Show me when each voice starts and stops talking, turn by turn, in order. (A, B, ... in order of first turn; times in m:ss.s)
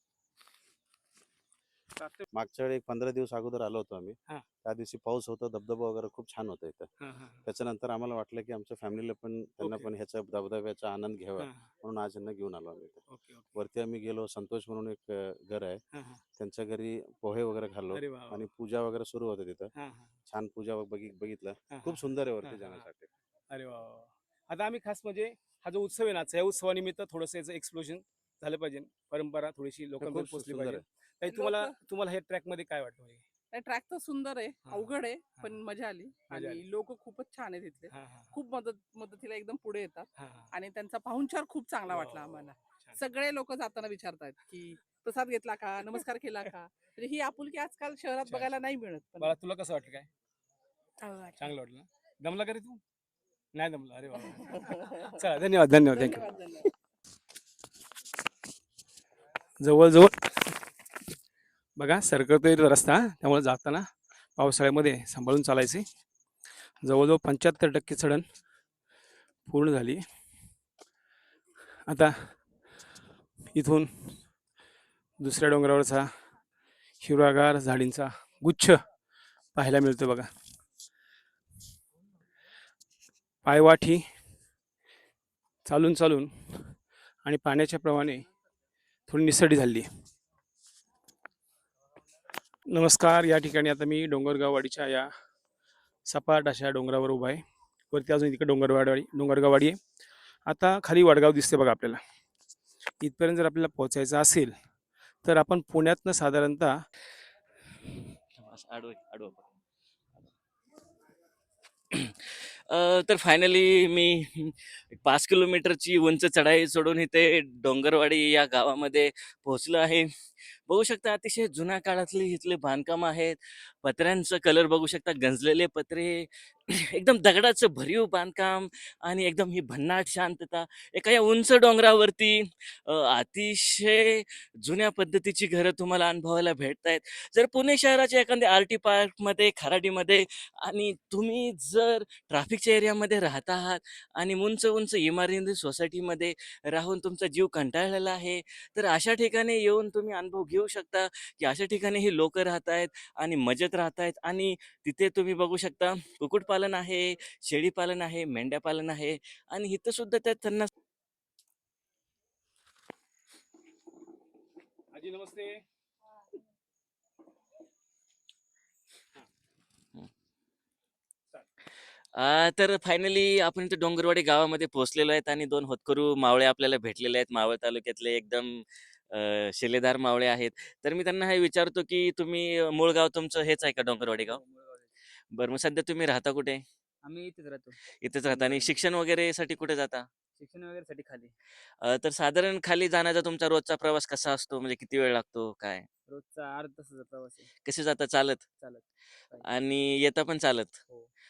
0:02.0-0:02.3 A
0:02.4-0:06.9 B
0:07.0-0:07.4 A
0:07.4-0:13.0 B
0:09.6-0:09.9 A
0:11.4-0:11.7 A
0:13.1-0:13.5 A
0:13.5-0:15.8 B
0:15.9-0:16.2 A
0:16.4-0:19.7 B
0:17.9-0:18.5 A
0:19.7-0:20.2 A
0:20.3-0:23.1 B
0:21.7-0:22.9 A
0:23.5-0:33.2 A
0:30.0-0:30.8 B
0:31.3-0:31.8 C
0:33.5-0:49.4 C
0:34.7-0:35.5 A
0:36.3-0:36.6 A
0:37.9-0:38.3 A
0:40.2-0:40.5 A
0:41.9-0:43.0 A
0:48.2-0:48.5 A
0:49.2-0:50.1 A
0:51.0-0:51.6 C
0:51.4-0:52.8 A
0:53.5-0:56.3 A
0:54.2-0:55.2 C
0:55.9-0:56.7 C
0:59.6-1:00.6 A
1:01.8-1:05.9 A
1:06.8-1:08.3 A
1:09.5-1:10.0 A
1:11.9-1:12.4 A
1:13.5-1:14.2 A
1:15.2-1:16.1 A
1:17.0-1:18.8 A
1:19.6-1:20.3 A
1:23.4-1:24.0 A
1:25.7-1:28.3 A
1:29.1-1:29.9 A
1:32.7-1:35.1 A
1:36.1-1:39.8 A
1:40.5-1:42.0 A
1:43.0-1:44.5 A
1:45.2-1:46.8 A
1:48.4-1:49.5 D
1:51.9-2:00.1 D
2:00.7-2:40.7 D
2:44.9-2:45.6 A
2:52.2-3:04.4 D
3:04.1-3:04.9 E
3:05.3-3:06.6 D
3:07.0-3:07.8 E
3:08.0-3:10.1 D
3:08.3-3:08.8 E
3:10.4-3:11.3 E
3:11.8-3:15.9 D
3:16.1-3:17.5 E
3:17.6-3:18.4 D
3:18.6-3:19.5 E
3:19.4-3:20.8 D